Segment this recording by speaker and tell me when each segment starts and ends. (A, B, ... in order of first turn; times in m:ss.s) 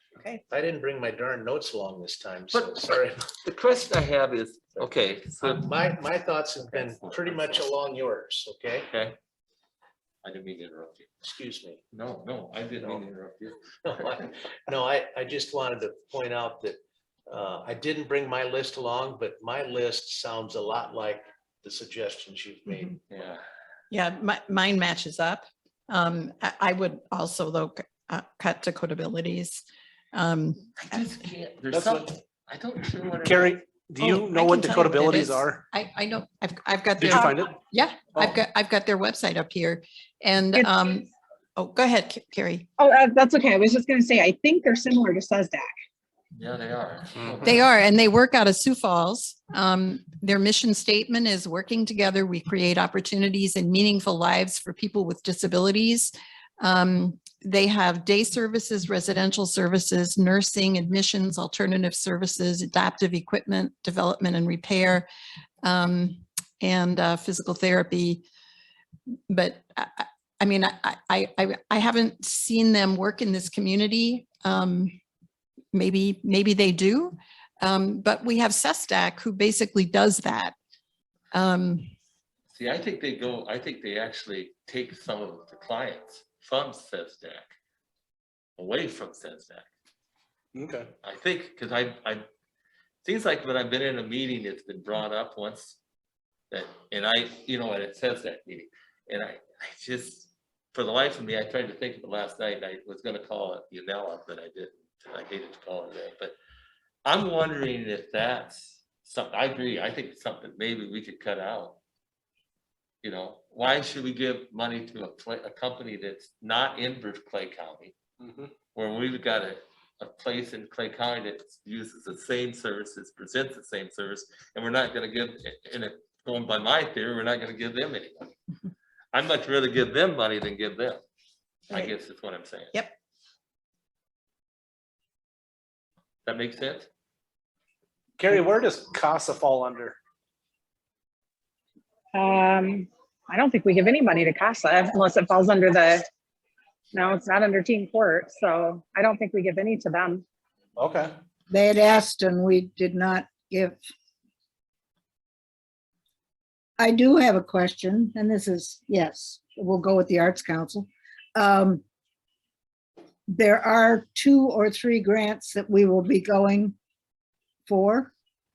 0:00.5-0:03.2 A
0:02.5-0:05.9 B
0:05.4-0:08.9 A
0:06.6-0:07.7 B
0:08.9-0:09.2 B
0:10.2-0:11.1 B
0:11.2-0:11.8 A
0:11.9-0:13.6 B
0:13.8-0:23.0 A
0:23.1-0:23.4 B
0:23.9-0:31.1 C
0:30.9-0:33.6 B
0:31.7-0:32.1 D
0:33.2-0:35.6 D
0:34.0-0:42.7 C
0:37.0-0:37.6 D
0:42.8-0:45.7 E
0:46.3-0:47.7 B
0:47.4-1:05.1 C
1:05.6-1:08.2 C
1:09.3-1:15.0 C
1:15.7-1:20.6 C
1:21.3-1:21.9 C
1:22.5-1:27.5 B
1:28.6-1:29.7 B
1:30.6-1:30.9 D
1:31.0-1:32.2 B
1:33.0-1:35.8 B
1:36.5-1:46.4 B
1:47.0-1:51.8 B
1:53.0-1:58.0 B
1:58.2-1:58.5 D
1:58.7-2:08.3 B
2:09.1-2:11.0 B
2:11.7-2:12.7 B
2:16.3-2:16.9 B
2:18.2-2:20.0 D
2:22.1-2:26.0 E
2:26.9-2:30.2 E
2:30.8-2:31.1 D
2:31.5-2:33.8 F
2:36.8-2:41.8 F
2:43.3-2:46.8 F
2:47.7-2:48.1 F